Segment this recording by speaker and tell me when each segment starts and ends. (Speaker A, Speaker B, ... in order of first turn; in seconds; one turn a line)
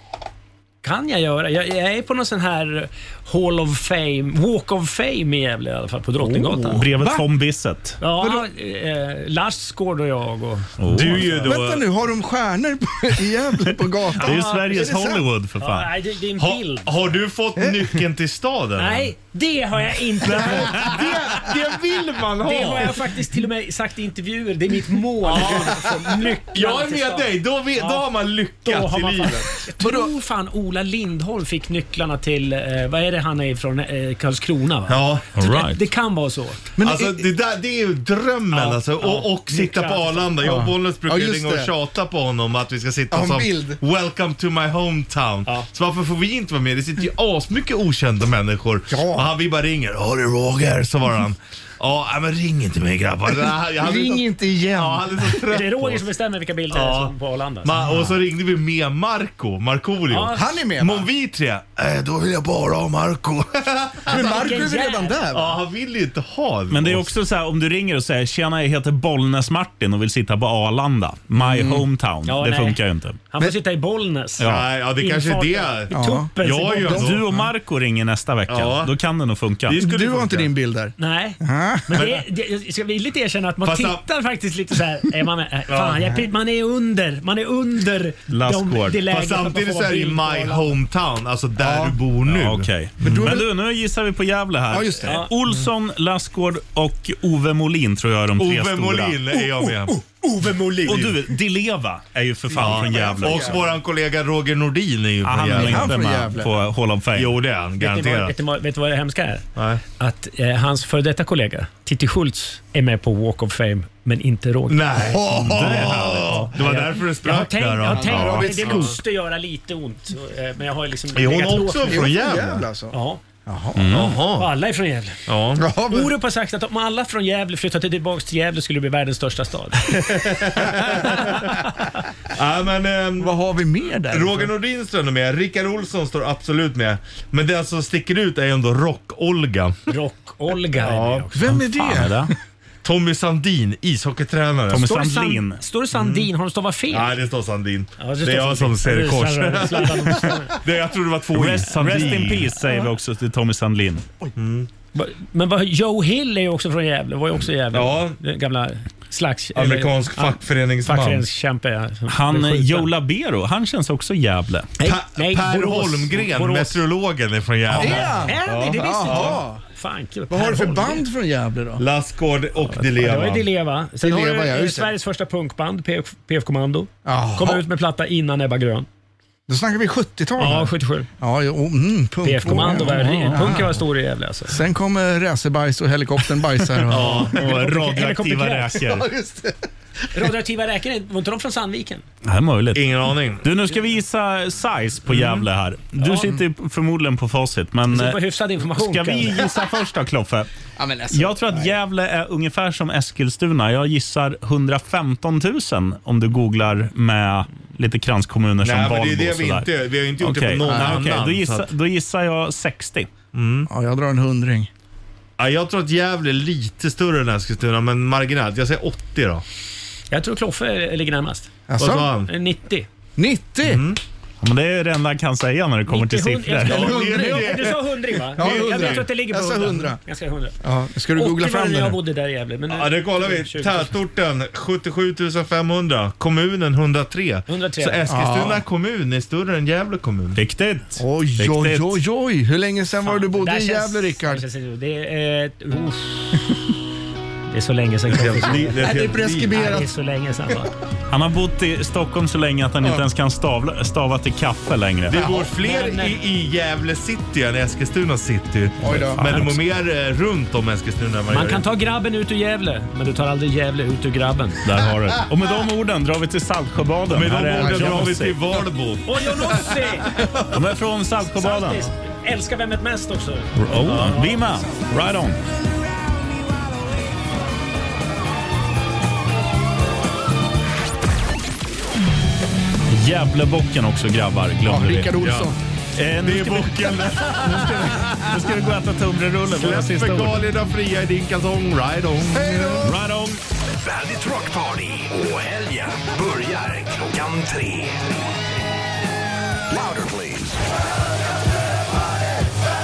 Speaker A: 0.8-6.9
Speaker B: 6.2-8.0
Speaker C: 7.0-7.3
Speaker A: 8.0-10.7
Speaker C: 8.2-8.5
Speaker B: 10.8-11.3
Speaker D: 10.9-11.8
Speaker C: 11.3-15.2
Speaker B: 14.2-15.9
Speaker A: 14.2-14.9
Speaker A: 15.6-17.1
Speaker D: 16.4-19.1
Speaker A: 18.8-21.0
Speaker D: 20.3-23.1
Speaker A: 22.4-28.1
Speaker D: 25.2-26.0
Speaker D: 26.5-29.5
Speaker A: 28.6-36.7
Speaker C: 29.8-30.1
Speaker D: 34.9-35.3
Speaker B: 35.4-35.8
Speaker C: 36.8-37.3
Speaker D: 36.8-56.1
Speaker A: 38.5-40.5
Speaker C: 40.4-41.7
Speaker C: 43.1-43.8
Speaker C: 48.9-49.3
Speaker C: 53.8-55.4
Speaker A: 55.4-57.8
Speaker D: 56.7-64.7
Speaker A: 60.1-60.5
Speaker C: 60.3-61.1
Speaker C: 64.1-65.5
Speaker A: 64.1-65.4
Speaker D: 65.3-67.1
Speaker B: 66.7-73.2
Speaker C: 71.4-71.8
Speaker A: 72.2-77.1
Speaker B: 74.4-74.7
Speaker D: 74.4-77.2
Speaker C: 75.9-77.4
Speaker B: 76.9-79.8
Speaker D: 78.5-78.9
Speaker D: 79.7-80.5
Speaker C: 79.7-82.0
Speaker A: 81.0-90.8
Speaker D: 82.0-82.2
Speaker D: 83.6-84.0
Speaker D: 85.7-86.2
Speaker B: 88.3-89.0
Speaker D: 89.1-93.3
Speaker C: 91.6-92.0
Speaker B: 92.3-99.2
Speaker C: 93.0-93.5
Speaker C: 94.7-95.2
Speaker D: 98.4-100.0
Speaker C: 99.4-101.0
Speaker B: 100.8-103.5
Speaker D: 100.9-101.1
Speaker D: 102.5-106.0
Speaker C: 102.9-103.7
Speaker B: 105.2-107.4
Speaker C: 105.5-106.5
Speaker D: 107.1-108.3
Speaker A: 107.8-109.5
Speaker D: 109.6-109.8
Speaker A: 110.0-115.0
Speaker D: 114.7-119.0
Speaker C: 115.0-115.5
Speaker B: 115.4-116.5
Speaker A: 116.2-122.2
Speaker C: 117.9-119.0
Speaker D: 121.1-122.7
Speaker C: 121.8-124.0
Speaker A: 122.9-123.2
Speaker B: 123.8-124.2
Speaker D: 123.9-124.5
Speaker A: 124.2-125.2
Speaker D: 125.3-125.7
Speaker C: 125.6-126.1
Speaker A: 125.8-129.9
Speaker D: 129.9-131.5
Speaker D: 132.3-133.3
Speaker C: 133.2-134.5
Speaker D: 134.1-139.8
Speaker A: 139.9-141.4
Speaker D: 140.8-141.3
Speaker C: 141.3-142.3
Speaker B: 141.4-142.3
Speaker D: 142.8-144.9
Speaker B: 144.7-145.6
Speaker A: 144.7-147.2
Speaker D: 145.9-146.3
Speaker D: 146.9-152.5
Speaker A: 148.0-150.6
Speaker B: 151.3-154.0
Speaker D: 154.4-154.7
Speaker A: 154.9-162.9
Speaker D: 157.7-158.2
Speaker D: 159.6-161.3
Speaker B: 162.1-164.7
Speaker A: 164.8-166.8
Speaker D: 164.8-169.4
Speaker C: 167.7-169.6
Speaker A: 167.7-171.1
Speaker C: 170.3-171.8
Speaker D: 171.8-173.5
Speaker A: 172.6-178.9
Speaker C: 174.0-174.9
Speaker C: 177.1-177.6
Speaker C: 179.5-183.7
Speaker A: 180.4-181.1
Speaker A: 182.2-184.6
Speaker B: 182.8-183.4
Speaker C: 184.5-187.4
Speaker D: 186.9-187.7
Speaker A: 187.0-188.9
Speaker B: 187.3-189.1
Speaker C: 188.8-189.7
Speaker A: 190.1-192.1
Speaker B: 192.2-200.5
Speaker D: 192.7-193.5
Speaker D: 195.1-195.5
Speaker A: 196.0-196.4
Speaker A: 197.9-199.6
Speaker C: 200.8-201.8
Speaker B: 201.1-209.7
Speaker D: 208.6-211.7
Speaker B: 210.2-213.1
Speaker C: 210.6-211.0
Speaker D: 213.3-213.7
Speaker C: 213.7-214.7
Speaker D: 215.4-219.4
Speaker A: 220.1-221.5
Speaker C: 221.7-222.2
Speaker D: 221.8-222.3
Speaker A: 222.2-222.9
Speaker C: 223.2-223.8
Speaker D: 223.7-224.0
Speaker B: 224.4-227.1
Speaker A: 225.9-230.6
Speaker D: 226.6-229.0
Speaker C: 226.7-230.0
Speaker C: 230.6-232.0
Speaker A: 231.2-233.9
Speaker D: 232.7-240.4
Speaker A: 237.5-238.1
Speaker C: 238.1-238.6
Speaker B: 240.4-242.0
Speaker C: 241.0-244.4
Speaker A: 243.0-246.4
Speaker A: 247.5-248.9
Speaker D: 248.1-249.6
Speaker C: 248.6-249.9
Speaker A: 249.5-250.7
Speaker B: 251.1-255.2
Speaker D: 255.1-261.7
Speaker C: 255.2-255.5
Speaker A: 255.2-256.2
Speaker C: 258.8-259.2
Speaker B: 259.2-259.6
Speaker A: 261.3-264.6
Speaker B: 264.6-268.4
Speaker D: 267.1-270.3
Speaker C: 267.5-268.0
Speaker A: 269.1-270.3
Speaker B: 270.5-271.9
Speaker A: 271.2-274.6
Speaker B: 273.6-275.4
Speaker B: 282.9-285.2
Speaker C: 284.6-285.6
Speaker D: 285.2-285.5
Speaker B: 286.0-290.4
Speaker D: 286.2-288.5
Speaker D: 289.5-292.9
Speaker C: 292.3-292.9
Speaker B: 292.8-293.4
Speaker E: 293.8-298.4
Speaker E: 299.7-300.6